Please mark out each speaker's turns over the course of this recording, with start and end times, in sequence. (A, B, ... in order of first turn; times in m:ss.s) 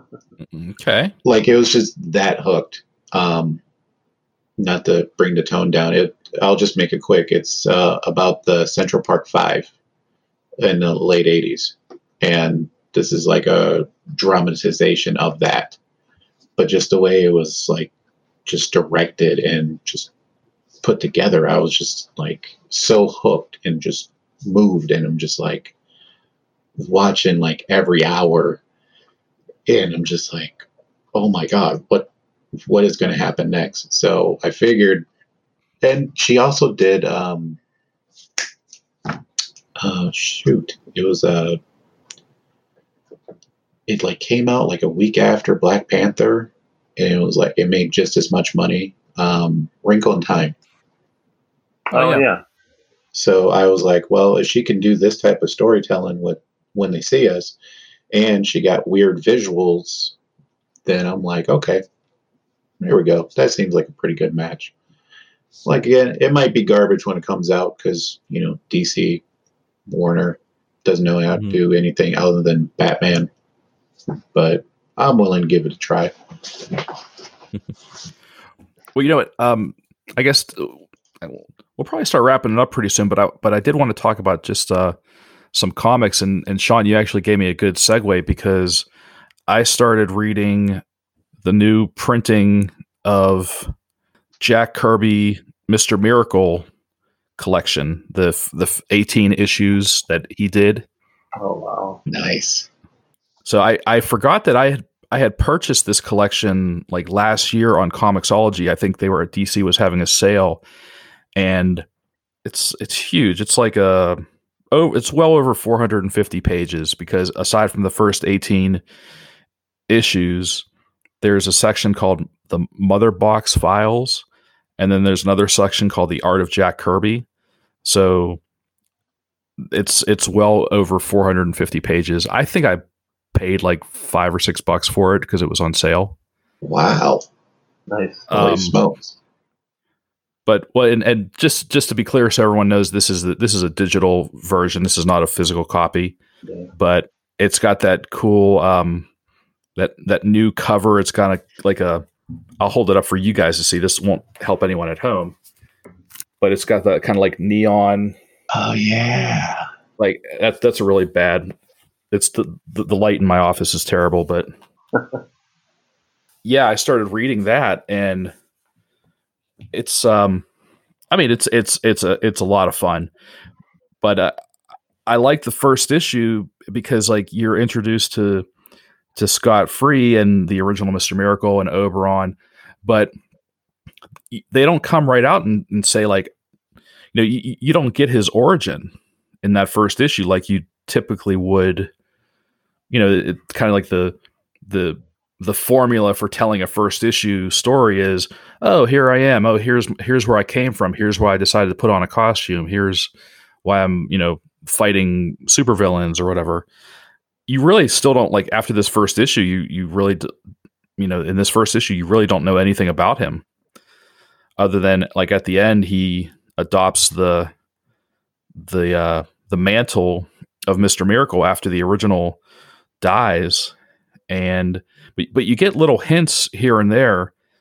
0:00.5-0:01.1 A
0:01.2-0:03.6 B
0:04.6-0:09.7 B
0:10.6-0:15.8 B
0:16.6-0:17.9 B
0:18.4-0:20.1 B
0:20.8-0:25.7 B
0:26.8-0:28.6 B
0:29.6-0:32.1 B
0:32.6-0:35.0 B
0:35.8-0:37.6 B
0:39.8-0:41.6 B
0:43.9-0:50.6 B
0:51.9-0:52.4 C
0:51.9-0:52.2 A
0:53.1-0:57.6 B
0:58.1-1:00.1 B
1:00.8-1:01.8 B
1:02.8-1:04.7 B
1:05.6-1:09.2 B
1:09.9-1:13.3 B
1:14.3-1:16.9 B
1:18.9-1:25.0 A
1:25.5-1:28.8 A
1:29.5-1:30.8 A
1:31.4-1:33.7 A
1:34.4-1:36.6 A
1:37.4-1:40.8 A
1:41.4-1:42.0 C
1:42.1-1:42.7 B
1:43.4-1:50.6 A
1:51.4-1:51.8 A
1:52.4-1:58.8 A
1:59.9-2:00.6 A
2:01.2-2:04.2 A
2:04.8-2:07.2 A
2:07.8-2:08.4 A
2:09.6-2:12.8 A
2:13.3-2:16.1 A
2:16.6-2:17.3 B
2:17.9-2:18.3 C
2:18.3-2:18.8 A
2:18.3-2:19.2 B
2:20.5-2:26.2 A
2:26.4-2:26.7 C
2:26.8-2:29.1 A
2:29.8-2:32.0 A
2:32.6-2:35.3 A
2:36.4-2:38.1 A
2:38.5-2:39.6 B
2:40.0-2:41.5 A
2:42.1-2:44.5 A
2:45.0-2:45.2 C
2:46.4-2:48.3 A
2:49.7-2:50.4 A
2:51.1-2:53.1 A
2:54.0-2:54.3 A
2:55.0-2:58.4 A
2:59.2-3:03.1 A
3:04.3-3:06.3 A
3:07.1-3:08.9 A
3:09.4-3:11.9 A
3:12.9-3:14.1 A
3:14.6-3:23.1 A
3:23.6-3:26.6 A
3:27.5-3:30.3 A
3:31.0-3:33.4 A
3:34.6-3:37.5 A
3:38.6-3:42.4 A
3:43.0-3:43.7 A
3:44.3-3:47.3 A